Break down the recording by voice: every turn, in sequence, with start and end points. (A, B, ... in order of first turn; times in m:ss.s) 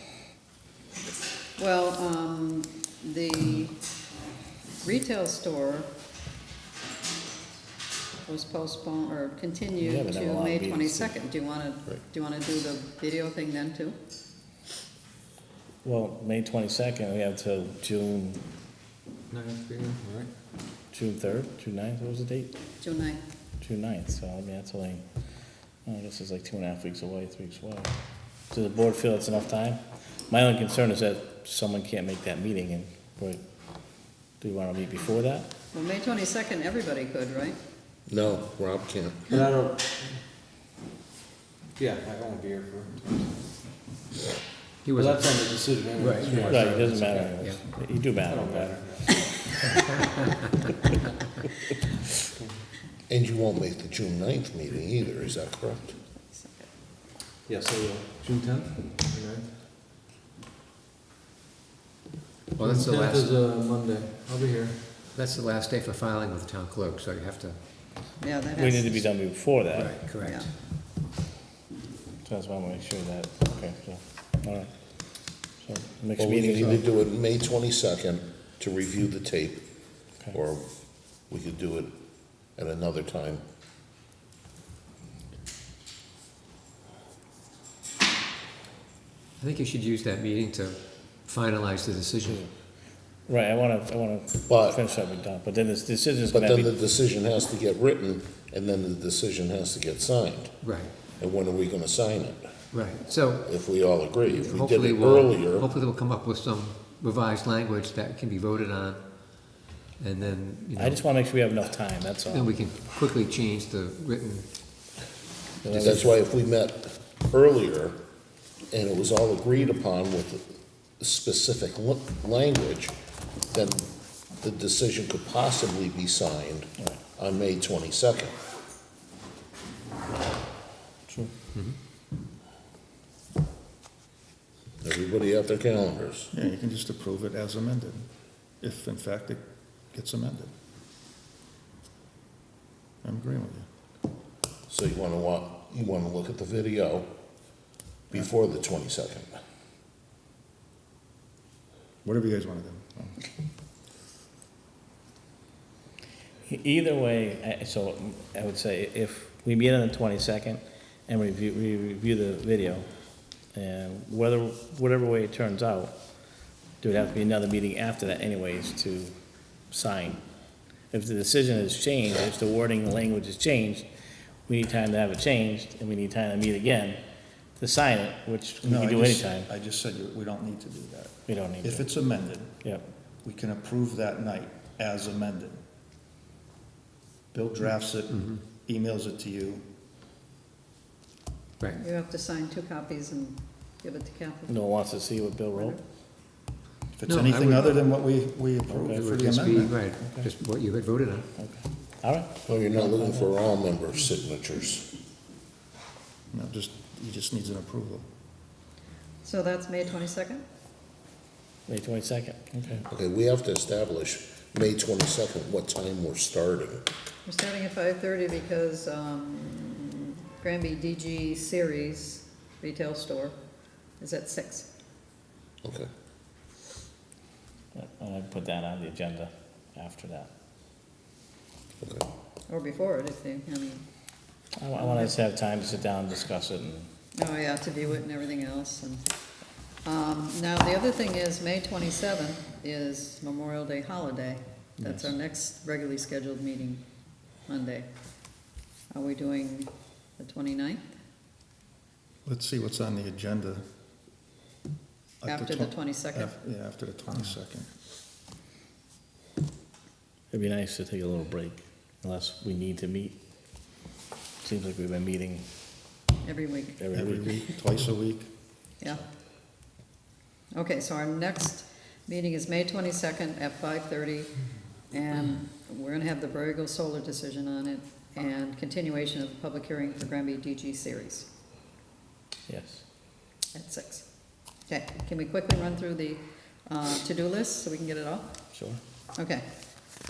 0:01.6-0:03.7 A
0:04.8-0:05.9 A
0:08.2-0:14.0 A
0:09.8-0:11.1 B
0:15.8-0:18.4 B
0:19.3-0:20.3 C
0:20.9-0:22.5 B
0:22.8-0:23.2 A
0:23.6-0:25.0 B
0:25.8-0:27.9 B
0:28.5-0:33.4 B
0:34.4-0:35.5 B
0:35.7-0:37.6 A
0:38.1-0:39.3 D
0:39.3-0:40.0 C
0:41.8-0:43.1 C
0:44.8-0:45.3 E
0:44.9-0:47.3 C
0:45.9-0:47.6 E
0:46.4-0:48.8 B
0:48.2-0:49.3 C
0:53.1-0:56.0 D
0:56.2-0:56.7 A
0:57.5-0:59.5 C
1:02.5-1:03.3 E
1:02.6-1:04.8 C
1:05.1-1:07.6 E
1:08.2-1:09.0 A
1:08.6-1:10.0 B
1:09.7-1:10.5 E
1:10.2-1:10.5 A
1:12.2-1:14.7 B
1:15.6-1:16.8 B
1:16.2-1:22.0 D
1:22.5-1:23.4 D
1:29.4-1:32.5 E
1:32.2-1:32.5 B
1:33.2-1:36.7 B
1:34.5-1:34.8 D
1:36.3-1:42.4 D
1:40.6-1:40.9 E
1:42.7-1:43.5 E
1:43.4-1:45.7 D
1:44.3-1:51.0 E
1:50.8-1:52.6 B
1:52.3-1:54.5 E
1:55.6-1:56.1 B
1:55.7-1:58.0 D
1:58.7-2:02.9 D
2:03.5-2:03.9 D
2:04.4-2:08.3 D
2:14.8-2:16.3 D
2:16.3-2:18.1 F
2:18.6-2:20.5 F
2:23.0-2:23.7 F
2:24.7-2:27.1 D
2:28.1-2:29.3 D
2:32.0-2:33.2 F
2:36.4-2:42.9 B
2:43.5-2:45.9 B
2:46.8-2:49.1 B
2:49.7-2:50.2 B
2:50.9-2:53.8 B
2:54.5-2:57.0 B
2:57.6-2:59.5 B
2:58.6-3:02.7 F
3:01.3-3:01.9 B
3:03.2-3:05.6 F
3:07.3-3:09.6 F
3:08.1-3:08.4 E
3:11.8-3:14.6 A
3:14.5-3:15.8 B
3:15.5-3:15.8 A
3:17.0-3:19.9 F
3:17.0-3:17.9 E
3:18.8-3:21.3 E
3:20.0-3:20.3 B
3:21.4-3:23.3 B
3:22.4-3:24.9 D
3:26.3-3:28.1 F
3:29.2-3:30.4 A
3:31.7-3:32.8 B
3:32.9-3:36.8 D
3:37.2-3:43.3 A
3:44.0-3:44.7 A
3:45.6-3:45.9 D
3:47.7-3:50.3 B
3:52.5-3:53.8 A
3:54.6-3:56.9 B
3:54.8-3:55.2 A
3:57.2-3:59.0 A
3:59.8-4:06.8 A
4:04.8-4:05.1 B
4:07.5-4:07.9 A
4:08.9-4:10.8 A
4:12.2-4:13.6 F
4:15.2-4:17.7 F
4:15.2-4:16.4 A
4:20.3-4:23.2 B
4:24.4-4:25.4 B
4:26.2-4:26.8 A
4:26.8-4:27.5 B
4:26.9-4:28.3 F
4:28.8-4:29.0 A
4:30.5-4:34.3 A
4:34.9-4:41.3 A
4:42.5-4:42.8 B
4:43.5-4:44.1 A
4:44.7-4:48.3 A
4:48.5-4:48.8 B
4:49.2-4:49.4 A